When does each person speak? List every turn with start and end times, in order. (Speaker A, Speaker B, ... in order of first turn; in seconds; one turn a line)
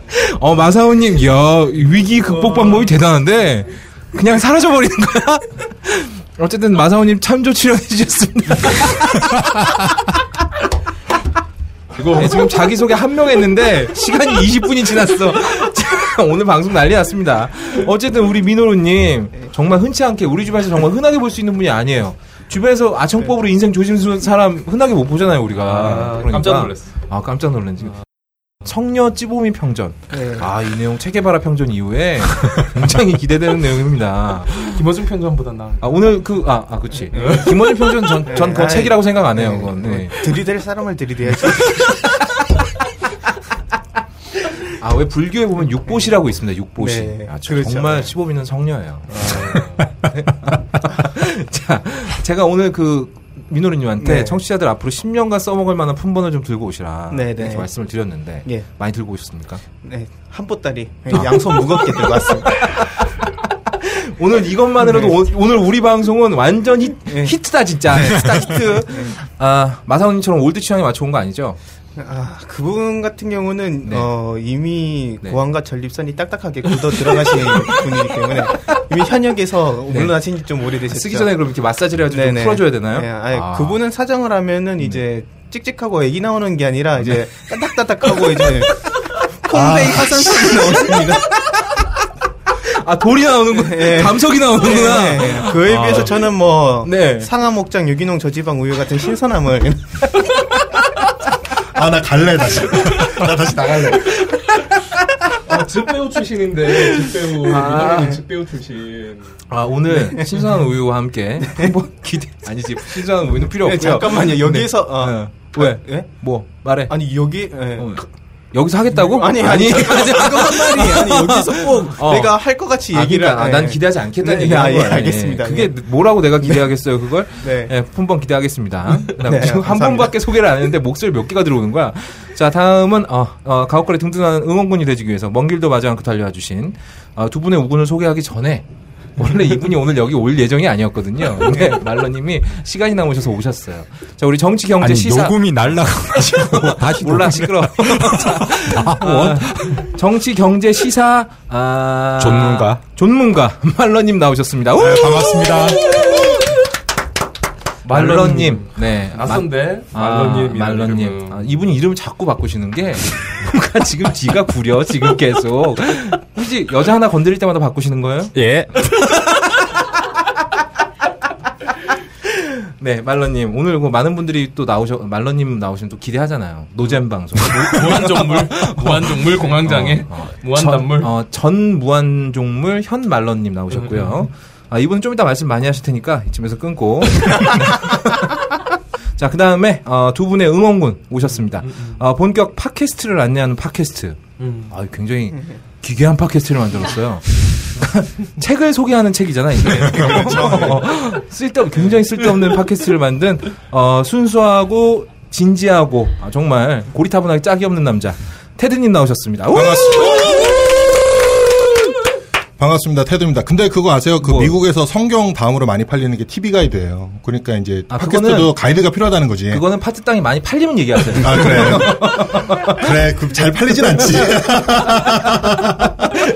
Speaker A: 0.1-9.9
Speaker B: 2.5-2.8
Speaker B: 11.9-12.5
Speaker A: 12.1-28.0
Speaker B: 25.6-26.9
Speaker A: 28.6-34.7
Speaker C: 30.1-30.4
Speaker B: 34.6-36.2
Speaker A: 35.8-40.3
Speaker C: 37.1-37.5
Speaker B: 37.1-37.4
Speaker C: 38.2-42.0
Speaker A: 44.7-59.6
Speaker C: 46.8-48.1
Speaker B: 49.1-49.9
Speaker C: 54.0-54.4
Speaker C: 57.1-57.7
Speaker C: 59.8-62.6
Speaker A: 61.1-61.4
Speaker A: 62.0-63.1
Speaker A: 63.8-71.6
Speaker C: 64.8-65.1
Speaker C: 67.1-67.4
Speaker C: 67.9-69.2
Speaker C: 72.0-81.3
Speaker A: 73.8-74.1
Speaker A: 77.1-77.8
Speaker A: 79.9-80.2
Speaker A: 80.8-83.8
Speaker C: 82.1-91.2
Speaker D: 89.5-90.0
Speaker A: 90.5-91.1
Speaker A: 92.6-96.2
Speaker C: 93.5-100.0
Speaker A: 96.8-97.3
Speaker D: 101.7-104.3
Speaker B: 105.5-109.4
Speaker C: 107.5-108.2
Speaker A: 109.5-117.0
Speaker C: 109.9-110.3
Speaker C: 111.4-111.7
Speaker C: 113.6-116.3
Speaker C: 116.9-118.0
Speaker A: 117.8-138.7
Speaker C: 119.0-125.8
Speaker C: 127.4-127.7
Speaker C: 129.2-130.2
Speaker A: 139.2-145.4
Speaker E: 144.8-149.8
Speaker A: 146.2-156.3
Speaker E: 152.2-152.8
Speaker E: 154.8-155.8
Speaker B: 157.8-161.5
Speaker A: 157.8-168.4
Speaker E: 168.3-169.2
Speaker A: 172.2-188.3
Speaker B: 176.8-181.1
Speaker B: 183.7-184.3
Speaker A: 189.2-210.4
Speaker B: 191.3-192.0
Speaker B: 194.4-194.7
Speaker C: 195.3-195.6
Speaker B: 199.7-200.9
Speaker D: 209.5-210.9
Speaker D: 212.6-219.6
Speaker A: 214.2-214.6
Speaker A: 217.9-218.5
Speaker A: 219.5-222.9
Speaker D: 221.1-225.9
Speaker A: 223.9-224.2